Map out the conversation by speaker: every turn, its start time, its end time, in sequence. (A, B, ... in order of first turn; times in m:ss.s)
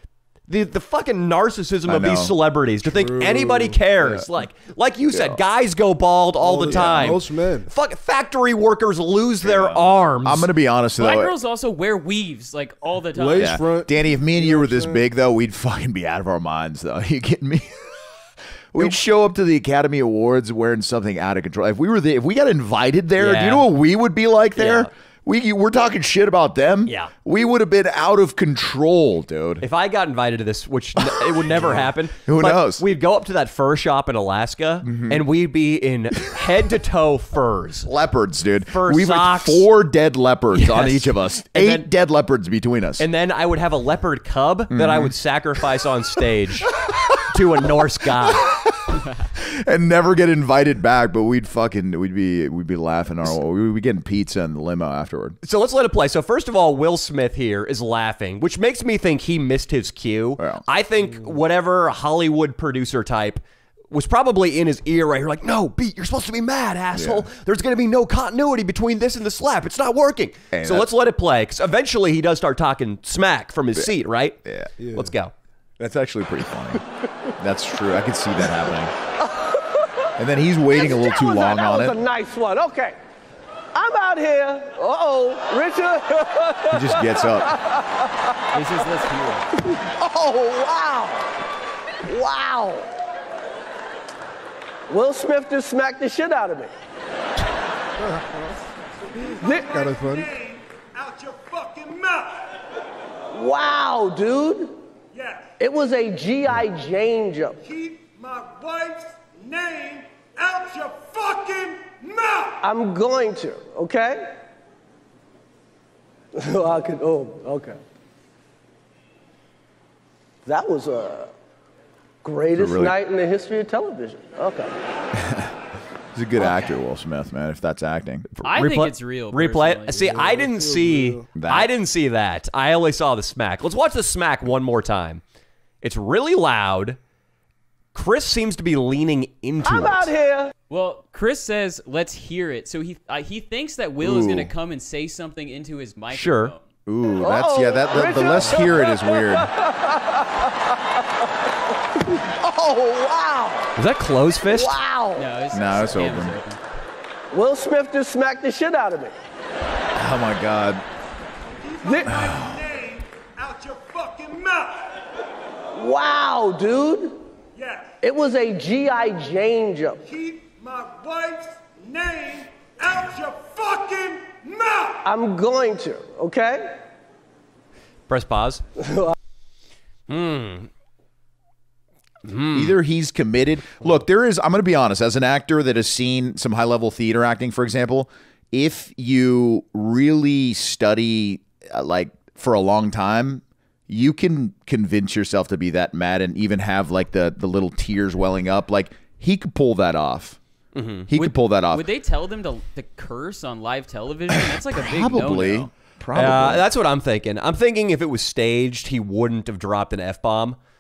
0:00.5-0:10.5 A
0:01.9-0:02.4 B
0:02.8-0:03.8 C
0:05.1-0:05.4 B
0:06.4-0:07.7 C
0:06.7-0:07.2 B
0:09.4-0:11.3 B
0:11.0-0:13.6 D
0:13.2-0:15.0 C
0:13.4-0:17.9 B
0:18.7-0:29.7 B
0:23.2-0:23.7 A
0:24.6-0:24.9 A
0:26.9-0:27.1 A
0:29.6-0:37.9 A
0:31.0-0:32.8 B
0:34.8-0:35.2 B
0:37.9-0:43.1 B
0:38.7-0:39.7 A
0:40.5-0:41.9 A
0:43.0-0:46.7 A
0:44.7-0:45.1 B
0:47.3-0:48.5 A
0:48.2-0:55.4 B
0:55.4-1:14.4 A
1:00.4-1:00.6 B
1:06.9-1:07.3 B
1:10.5-1:10.9 B
1:14.4-1:14.7 B
1:14.8-1:15.2 C
1:14.9-1:15.3 A
1:15.8-1:16.8 B
1:17.4-1:18.9 B
1:19.3-1:19.9 E
1:20.2-1:22.0 B
1:20.7-1:23.0 E
1:23.7-1:28.2 E
1:26.7-1:27.6 B
1:28.5-1:29.6 D
1:29.7-1:31.3 E
1:32.1-1:32.9 E
1:34.9-1:36.7 E
1:38.0-1:38.5 C
1:39.1-1:40.4 C
1:39.3-1:40.0 E
1:40.4-1:42.4 F
1:43.3-1:44.8 E
1:45.2-1:45.5 F
1:45.6-1:47.8 E
1:47.8-1:52.6 F
1:52.6-1:54.3 E
1:56.4-1:57.8 E
2:00.4-2:01.3 E
2:02.2-2:04.8 E
2:02.6-2:03.0 B
2:06.1-2:08.3 B
2:08.3-2:15.2 A
2:08.4-2:10.1 D
2:09.9-2:11.3 C
2:11.4-2:11.7 B
2:15.8-2:17.0 A
2:17.9-2:20.1 A
2:19.6-2:20.5 E
2:20.7-2:26.6 D
2:24.0-2:24.5 B
2:26.1-2:26.5 A
2:26.9-2:29.5 B
2:27.2-2:30.5 E
2:32.2-2:33.7 E
2:33.8-2:34.8 A
2:34.5-2:35.3 E
2:35.2-2:36.6 D
2:35.5-2:36.4 B
2:37.3-2:39.1 E
2:39.9-2:40.8 B
2:41.8-2:42.3 E
2:42.0-2:42.8 B
2:42.6-2:44.8 F
2:45.7-2:47.3 E
2:47.6-2:47.9 F
2:48.0-2:50.2 E
2:50.2-2:55.0 F
2:55.0-2:56.8 E
2:58.1-2:58.6 A
2:58.8-2:59.1 E
3:00.1-3:00.7 A
3:02.2-3:02.8 A
3:02.5-3:20.4 B
3:20.7-3:21.1 A
3:21.1-3:21.9 B
3:21.2-3:25.7 D
3:24.4-3:26.7 B
3:26.1-3:30.6 A